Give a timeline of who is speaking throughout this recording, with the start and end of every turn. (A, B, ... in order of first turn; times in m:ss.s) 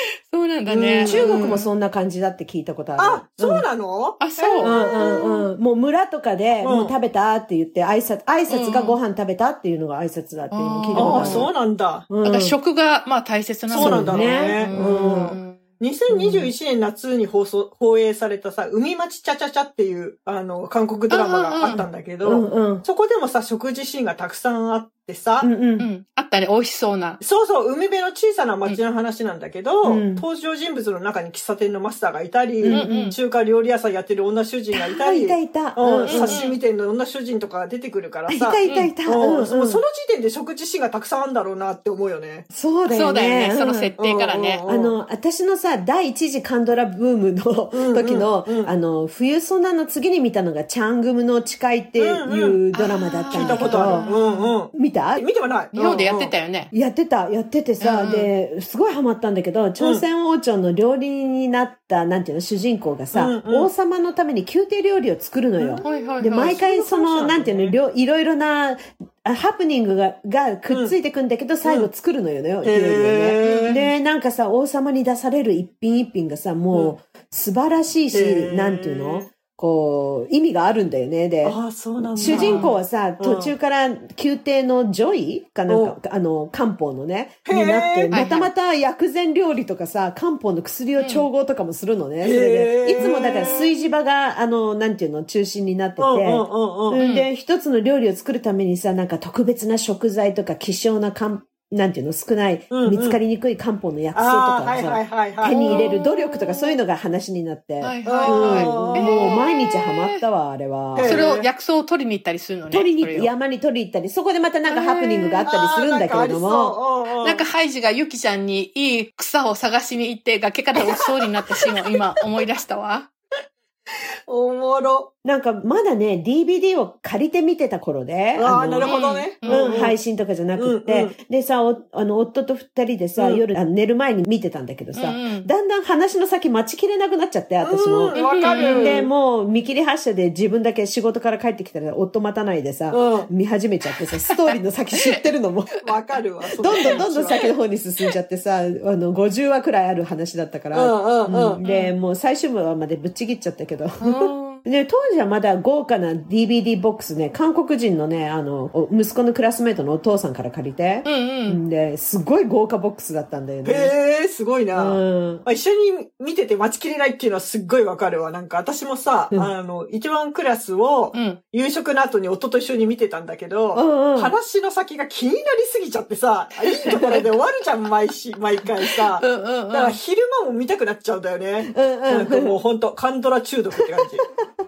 0:00.3-0:01.7 A
0:00.7-0:01.5 B
0:01.0-0:03.7 C
0:03.0-0:05.5 B
0:04.2-0:04.8 A
0:04.6-0:11.5 C
0:06.6-0:07.0 B
0:08.5-0:09.0 A
0:10.5-0:11.5 A
0:11.0-0:12.1 B
0:12.1-0:12.6 C
0:12.2-0:15.6 A
0:13.7-0:25.5 B
0:13.8-0:15.4 C
0:16.1-0:16.5 C
0:21.1-0:21.8 A
0:21.7-0:22.8 C
0:25.4-0:25.9 C
0:25.8-0:27.2 A
0:27.2-0:42.5 B
0:29.8-0:30.2 C
0:32.6-0:33.1 C
0:32.7-0:33.2 A
0:34.8-0:36.4 C
0:36.1-0:36.6 A
0:38.3-0:39.8 C
0:38.7-0:38.9 A
0:42.5-0:43.9 C
0:42.9-0:44.6 A
0:44.0-0:45.0 B
0:44.7-0:54.1 C
0:47.7-0:48.7 B
0:52.0-0:52.6 B
0:52.7-0:54.5 A
0:53.3-0:56.4 B
0:54.7-0:55.3 C
0:55.8-0:56.7 A
0:56.7-1:21.6 C
0:57.8-0:58.3 A
0:59.8-1:00.0 B
1:03.1-1:03.7 B
1:05.6-1:07.8 B
1:05.8-1:06.6 A
1:10.7-1:11.0 B
1:11.6-1:11.9 B
1:12.6-1:13.9 B
1:16.7-1:17.0 B
1:18.1-1:19.3 B
1:21.4-1:23.5 B
1:22.2-1:51.2 C
1:22.2-1:22.8 A
1:25.7-1:26.0 B
1:27.5-1:28.2 B
1:28.1-1:28.5 A
1:31.0-1:31.3 A
1:32.2-1:33.9 B
1:36.0-1:37.0 B
1:37.0-1:37.3 A
1:42.7-1:43.2 B
1:44.1-1:46.0 B
1:45.5-1:46.8 A
1:47.8-1:50.2 A
1:48.0-1:49.4 B
1:51.0-1:51.5 B
1:51.0-1:53.3 A
1:52.7-1:56.8 C
1:54.7-1:55.5 A
1:55.4-1:57.4 B
1:57.2-2:03.1 A
2:04.3-2:05.1 B
2:05.2-2:25.9 C
2:08.4-2:10.0 B
2:08.8-2:09.7 A
2:10.6-2:11.2 B
2:13.2-2:13.4 B
2:14.9-2:15.5 A
2:17.6-2:19.1 B
2:18.2-2:19.0 A
2:22.9-2:23.3 B
2:24.5-2:25.2 A
2:25.8-2:27.4 B
2:26.6-2:43.9 C
2:30.7-2:31.6 B
2:31.6-2:31.9 A
2:34.0-2:34.6 A
2:41.0-2:41.6 A
2:43.6-3:04.3 B
2:44.8-2:45.5 C
2:51.1-2:51.4 A
2:53.8-2:54.4 C
2:56.9-2:57.3 C
2:58.8-3:00.0 A
3:01.7-3:02.6 C